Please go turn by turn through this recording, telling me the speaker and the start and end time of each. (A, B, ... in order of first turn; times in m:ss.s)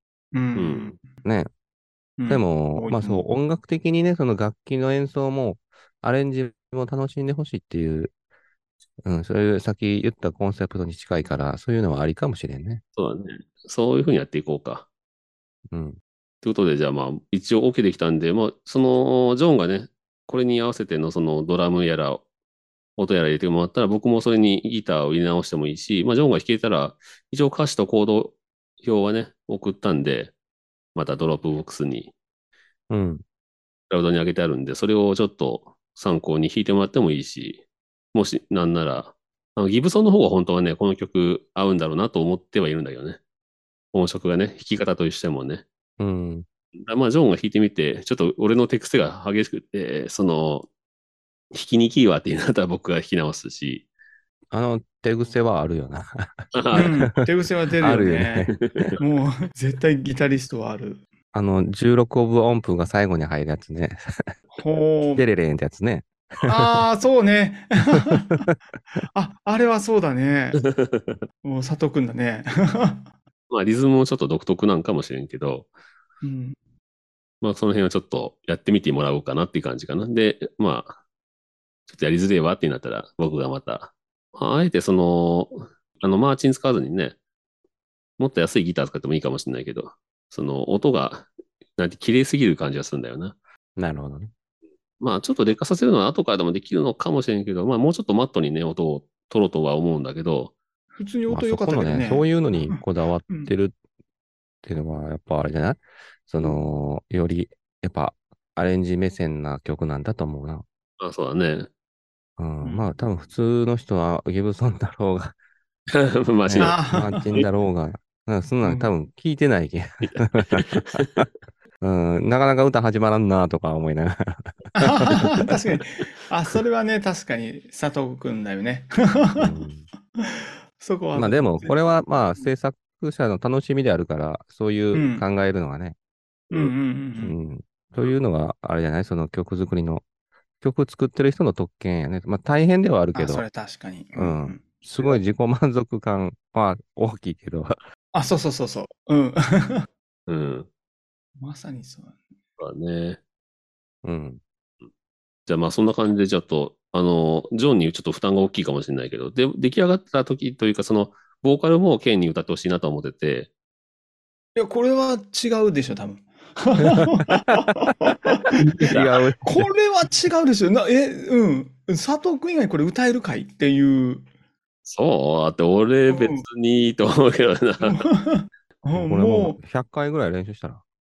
0:00.3-0:01.2 A
0:00.6-0:01.0 B
0:02.2-0:03.3 A
0:02.3-0:08.1 C
0:09.0-0:12.8 C
0:13.0-0:14.9 B
0:15.7-0:16.0 C
0:16.4-0:22.2 B
0:23.0-0:30.3 B
0:31.0-0:32.1 B
0:32.9-0:33.2 C
0:33.9-0:43.2 B
0:43.9-0:45.6 B
0:46.0-0:46.5 C
0:46.8-0:50.7 B
0:51.5-0:53.9 B
0:54.5-0:58.7 C
0:56.6-0:56.9 B
0:56.7-1:01.0 A
1:01.3-1:04.0 C
1:04.6-1:05.2 A
1:05.2-1:06.8 C
1:06.4-1:08.5 A
1:09.1-1:10.6 A
1:10.6-1:11.2 B
1:11.4-1:13.1 A
1:13.5-1:15.7 B
1:16.2-1:16.6 A
1:17.4-1:21.0 B
1:21.9-1:27.2 B
1:28.2-1:33.4 B
1:33.8-1:34.3 C
1:35.0-1:40.6 B
1:41.0-1:43.5 A
1:41.3-1:43.8 C
1:44.6-1:50.6 C
1:51.0-1:51.7 B
1:52.4-1:55.4 C
1:52.6-1:53.0 A
1:56.0-1:56.8 B
1:56.5-2:00.6 C
1:56.6-1:57.3 A
1:58.6-1:58.9 A
2:00.0-2:01.3 B
2:01.8-2:05.4 C
2:04.8-2:09.5 A
2:09.4-2:09.9 C
2:10.2-2:12.5 A
2:11.1-2:16.0 C
2:14.9-2:15.2 A
2:16.5-2:17.4 A
2:16.5-2:20.0 C
2:20.6-2:23.4 C
2:23.1-2:25.2 A
2:24.2-2:27.8 C
2:28.1-2:29.9 A
2:30.3-2:30.7 B
2:31.4-2:32.2 A
2:32.6-2:33.2 B
2:34.0-2:34.4 C
2:35.5-2:43.5 B
2:44.6-2:48.4 A
2:47.3-2:47.6 C
2:48.5-2:49.1 B
2:48.9-2:49.7 C
2:49.4-2:54.2 A
2:54.8-2:58.0 B
2:56.1-2:56.4 A
2:57.8-2:59.6 A
2:58.9-3:00.8 C